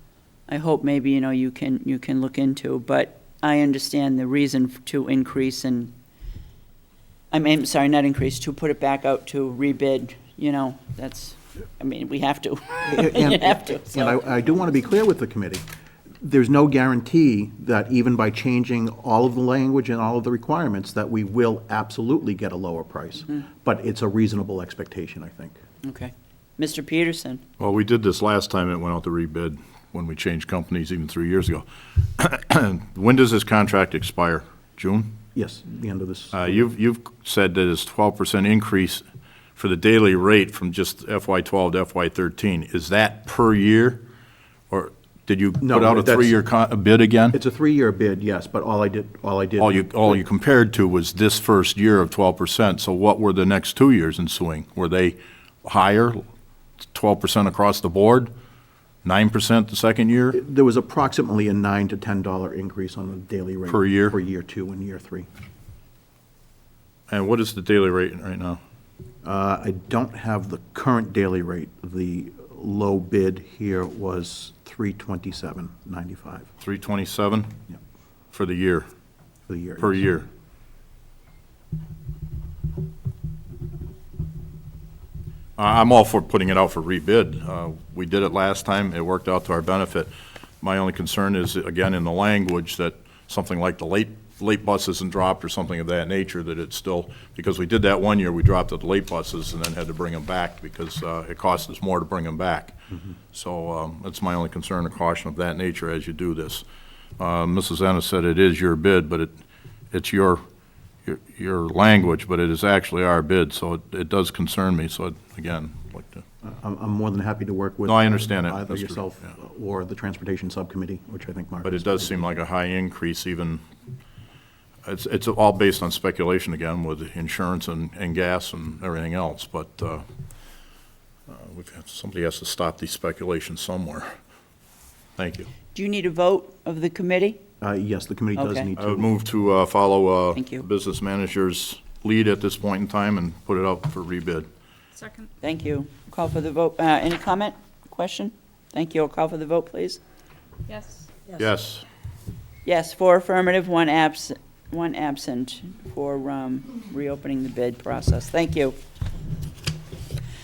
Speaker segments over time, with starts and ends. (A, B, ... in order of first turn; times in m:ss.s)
0:00.5-0:05.9 A
0:07.3-0:14.2 A
0:12.8-0:15.6 B
0:16.2-0:25.6 B
0:25.8-0:27.4 A
0:27.6-0:31.6 C
0:32.2-0:35.1 C
0:35.3-0:36.6 B
0:36.3-0:39.0 C
0:39.6-0:44.0 C
0:44.7-0:47.4 C
0:45.6-0:46.4 B
0:47.3-0:50.2 B
0:49.6-0:56.2 C
0:56.9-0:58.3 C
0:59.0-1:00.4 C
1:00.3-1:05.3 B
1:03.7-1:04.2 C
1:07.1-1:08.6 C
1:09.2-1:16.5 B
1:16.6-1:17.5 C
1:18.3-1:18.9 C
1:19.5-1:20.0 B
1:19.8-1:20.3 C
1:25.6-1:30.1 C
1:30.6-1:42.8 C
1:43.3-1:46.6 C
1:47.2-1:49.3 C
1:49.9-1:50.4 C
1:51.0-1:56.2 C
1:56.4-2:02.1 B
1:57.8-1:59.1 C
2:01.6-2:03.6 C
2:04.8-2:10.0 C
2:11.3-2:14.1 C
2:15.2-2:15.5 C
2:15.7-2:17.4 A
2:17.6-2:19.1 B
2:18.4-2:18.7 A
2:18.8-2:24.5 C
2:20.3-2:20.6 A
2:25.4-2:30.0 A
2:31.4-2:31.8 C
2:32.6-2:38.8 A